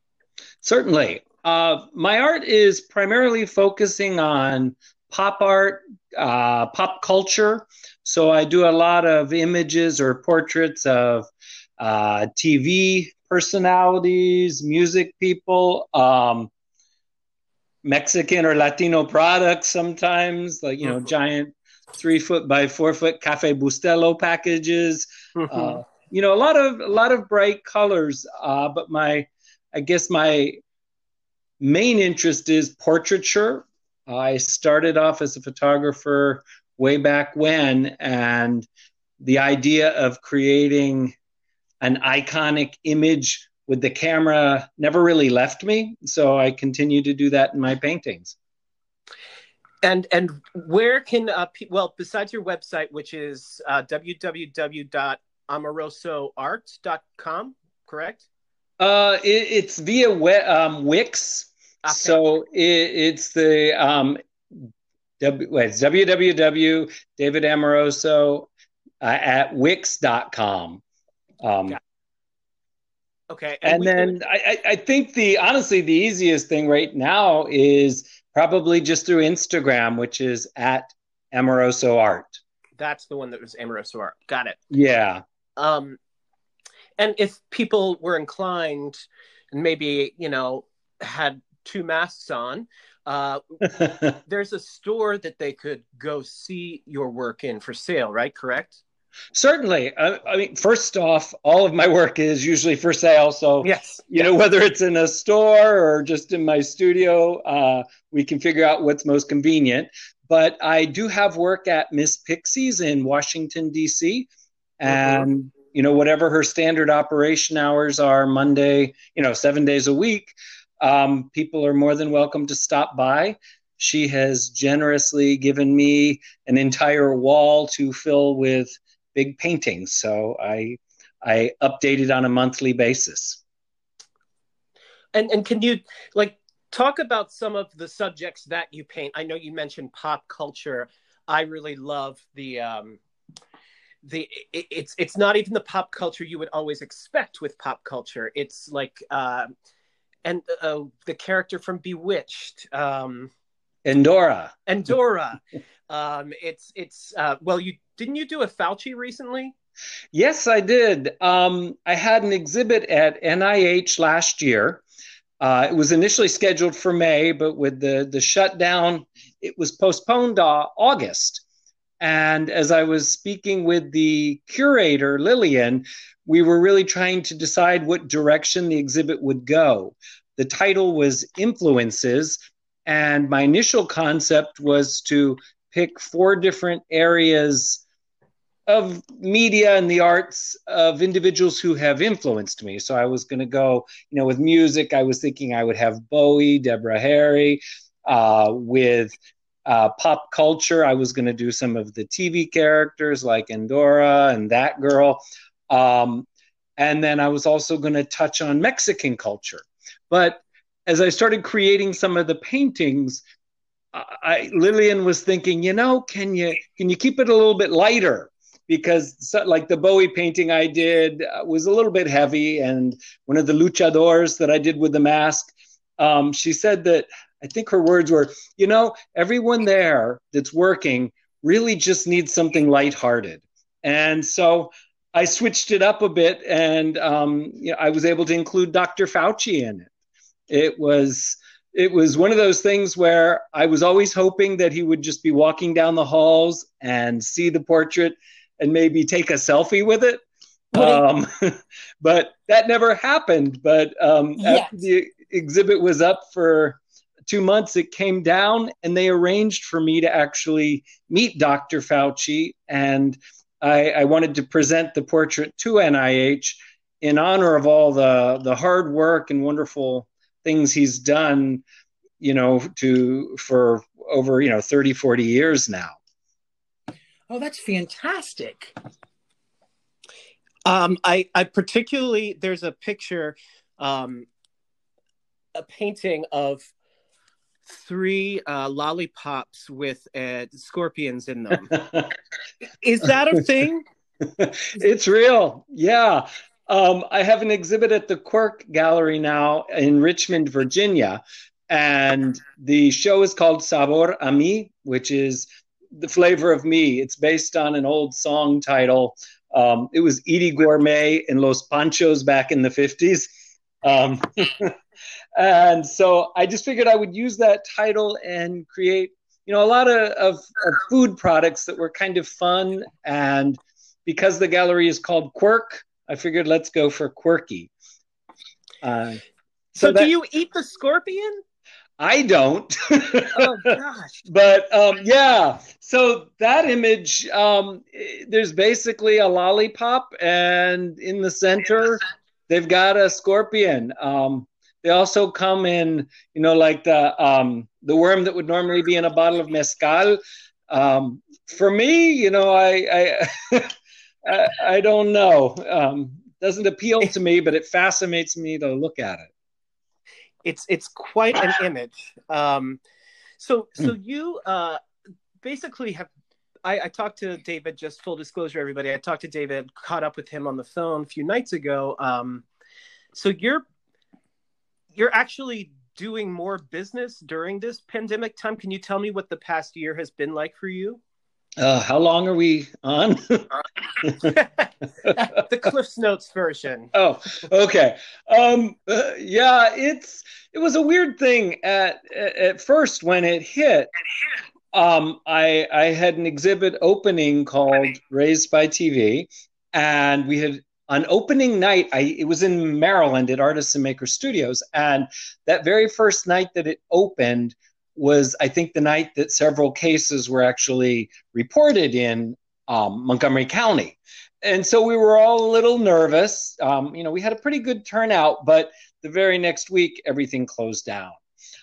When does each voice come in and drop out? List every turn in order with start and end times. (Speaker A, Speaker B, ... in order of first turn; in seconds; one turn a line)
Speaker A: 0.6-16.5
Speaker A: 17.8-30.6
Speaker B: 25.4-25.8
Speaker A: 31.6-38.7
Speaker A: 39.2-41.1
Speaker A: 41.8-48.4
Speaker B: 49.8-58.3
Speaker A: 58.8-64.7
Speaker B: 61.9-62.2
Speaker A: 65.2-68.5
Speaker A: 69.0-70.8
Speaker A: 71.4-71.8
Speaker B: 73.3-74.2
Speaker A: 73.6-82.4
Speaker B: 82.8-84.6
Speaker A: 84.7-85.2
Speaker B: 85.6-86.0
Speaker B: 87.0-98.8
Speaker A: 99.3-114.3
Speaker B: 103.6-104.3
Speaker A: 114.8-133.4
Speaker B: 114.9-115.3
Speaker B: 135.1-143.0
Speaker B: 144.0-149.5
Speaker B: 150.2-153.3
Speaker A: 153.8-154.5
Speaker B: 154.7-159.6
Speaker A: 160.1-164.8
Speaker A: 165.4-171.4
Speaker A: 172.0-187.8
Speaker A: 188.7-213.2
Speaker A: 213.9-239.9
Speaker A: 240.5-250.2
Speaker A: 250.7-271.6
Speaker C: 250.8-251.0
Speaker C: 254.4-254.8
Speaker A: 272.2-276.0
Speaker C: 277.3-278.8
Speaker B: 280.6-284.3
Speaker B: 285.6-286.7
Speaker B: 287.7-291.8
Speaker B: 292.8-293.9
Speaker A: 294.4-313.3
Speaker A: 313.8-314.8
Speaker A: 315.4-327.7
Speaker A: 328.8-329.2
Speaker A: 329.8-330.1
Speaker B: 329.8-331.4
Speaker A: 332.0-353.7
Speaker B: 333.4-334.1
Speaker A: 354.2-359.3
Speaker B: 360.4-362.8
Speaker B: 363.4-364.8
Speaker B: 365.4-366.1
Speaker B: 366.6-372.4
Speaker B: 373.1-373.6
Speaker B: 374.9-381.0
Speaker A: 381.6-384.3
Speaker B: 385.1-386.9
Speaker A: 386.9-393.9
Speaker A: 394.7-421.2